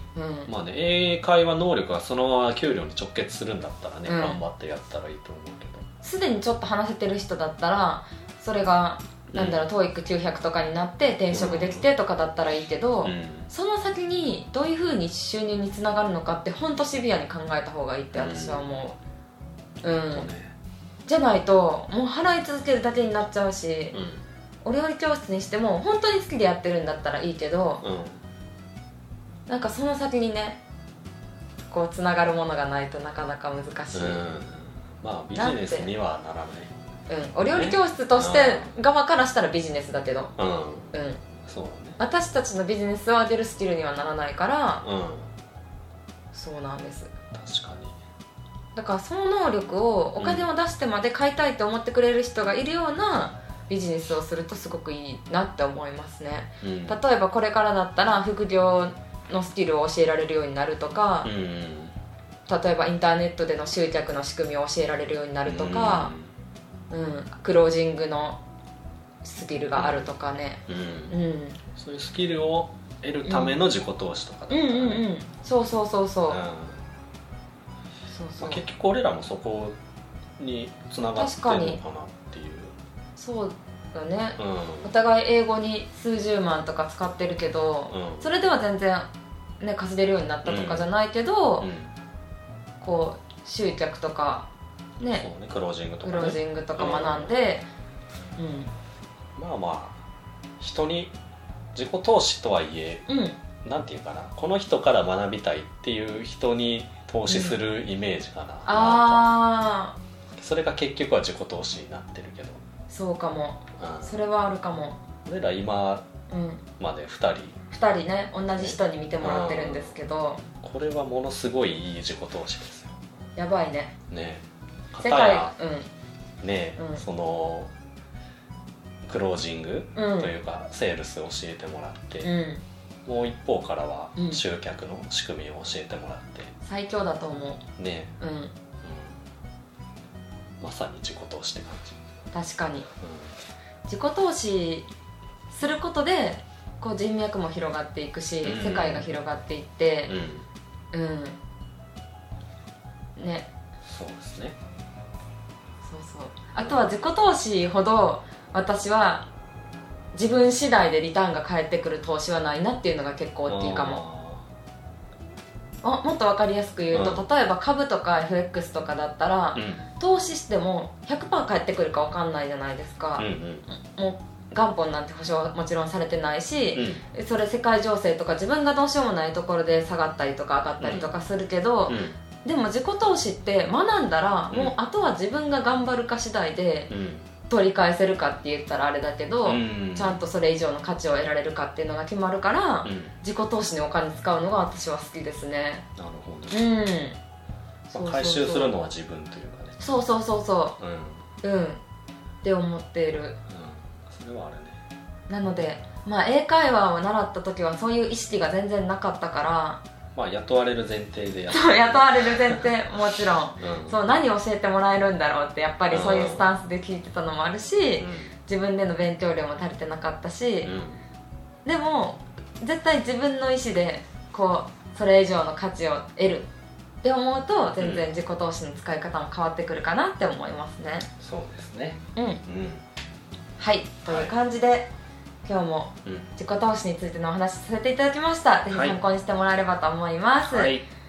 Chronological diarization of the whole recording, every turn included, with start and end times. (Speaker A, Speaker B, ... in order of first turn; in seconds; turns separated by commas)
Speaker A: 0.1-0.5, Speaker B: 0.5-5.8, Speaker A: 4.0-4.4, Speaker A: 6.0-19.0, Speaker B: 9.3-9.6, Speaker B: 11.3-11.9, Speaker B: 13.0-13.5, Speaker B: 18.1-18.7, Speaker A: 19.8-20.3, Speaker B: 20.1-20.5, Speaker A: 21.1-24.0, Speaker B: 23.9-24.2, Speaker A: 24.6-27.8, Speaker B: 27.8-28.2, Speaker A: 29.5-30.6, Speaker A: 31.7-34.3, Speaker B: 33.9-36.7, Speaker A: 35.3-35.9, Speaker A: 37.1-40.3, Speaker B: 37.5-38.8, Speaker B: 40.4-40.9, Speaker A: 40.9-41.2, Speaker B: 41.5-42.0, Speaker A: 42.0-44.8, Speaker B: 44.8-45.3, Speaker A: 46.3-47.1, Speaker B: 47.3-48.0, Speaker A: 48.8-61.3, Speaker B: 50.2-50.5, Speaker B: 56.6-57.0, Speaker B: 61.2-61.9, Speaker A: 62.5-66.1, Speaker B: 65.4-66.3, Speaker A: 66.9-68.4, Speaker A: 69.2-71.6, Speaker B: 69.7-70.0, Speaker B: 70.7-71.2, Speaker B: 71.8-75.0, Speaker A: 73.2-73.6, Speaker A: 74.5-76.4, Speaker B: 76.3-76.8, Speaker A: 78.1-78.6, Speaker B: 78.4-79.8, Speaker B: 80.4-82.8, Speaker A: 81.2-81.8, Speaker A: 83.2-89.1, Speaker B: 84.4-84.9, Speaker B: 87.9-88.3, Speaker A: 89.6-91.7, Speaker B: 90.4-90.9, Speaker B: 91.6-92.0, Speaker A: 92.8-94.5, Speaker A: 95.0-95.3, Speaker B: 95.0-97.3, Speaker A: 96.0-97.7, Speaker A: 98.4-98.7, Speaker B: 99.3-100.0, Speaker B: 100.6-101.1, Speaker B: 101.7-103.1, Speaker A: 103.1-103.4, Speaker B: 103.6-109.3, Speaker A: 107.3-107.6, Speaker A: 108.7-110.0, Speaker B: 110.4-112.6, Speaker A: 112.9-115.0, Speaker B: 113.8-114.2, Speaker B: 115.2-116.1, Speaker A: 116.3-116.6, Speaker B: 116.8-117.6, Speaker A: 117.7-120.4, Speaker B: 118.5-120.0, Speaker B: 120.6-123.0, Speaker A: 123.3-123.9, Speaker B: 124.1-125.5, Speaker A: 125.0-125.9, Speaker B: 126.4-127.7, Speaker A: 126.8-127.0, Speaker B: 129.0-132.3, Speaker A: 129.9-130.3, Speaker A: 132.2-132.6, Speaker B: 133.1-136.5, Speaker A: 134.2-134.4, Speaker A: 136.6-137.6, Speaker B: 137.8-138.1, Speaker A: 138.2-138.5, Speaker B: 138.8-139.2, Speaker B: 140.6-142.0, Speaker A: 142.3-142.9, Speaker B: 143.0-143.3, Speaker A: 143.9-144.9, Speaker A: 145.5-150.2, Speaker B: 148.4-149.1, Speaker B: 150.1-150.4, Speaker A: 150.9-151.4, Speaker A: 153.2-153.5, Speaker B: 153.8-154.6, Speaker A: 155.8-159.3, Speaker A: 160.1-164.0, Speaker B: 163.5-164.4, Speaker A: 165.8-186.9, Speaker B: 166.9-167.2, Speaker B: 169.5-169.8, Speaker B: 173.2-173.7, Speaker B: 176.7-177.0, Speaker B: 180.8-181.1, Speaker B: 181.9-182.2, Speaker B: 186.9-187.3, Speaker A: 187.5-195.8, Speaker B: 189.4-190.2, Speaker B: 192.8-193.1, Speaker B: 196.0-196.7, Speaker A: 196.5-197.2, Speaker B: 197.9-199.8, Speaker A: 197.9-198.8, Speaker A: 199.8-200.8, Speaker B: 200.8-201.2, Speaker A: 201.4-201.8, Speaker A: 202.4-203.4, Speaker B: 203.5-204.8, Speaker A: 205.3-209.8, Speaker B: 210.1-212.7, Speaker A: 211.5-220.7, Speaker B: 213.6-214.0, Speaker B: 215.9-216.4, Speaker B: 218.0-218.3, Speaker B: 220.6-221.0, Speaker A: 221.6-226.5, Speaker A: 227.0-231.1, Speaker B: 227.8-228.1, Speaker B: 231.2-232.8, Speaker A: 232.2-232.4, Speaker A: 233.6-234.9, Speaker B: 234.1-234.3, Speaker A: 235.4-240.8, Speaker B: 236.0-236.3, Speaker B: 238.7-239.0, Speaker B: 240.4-240.9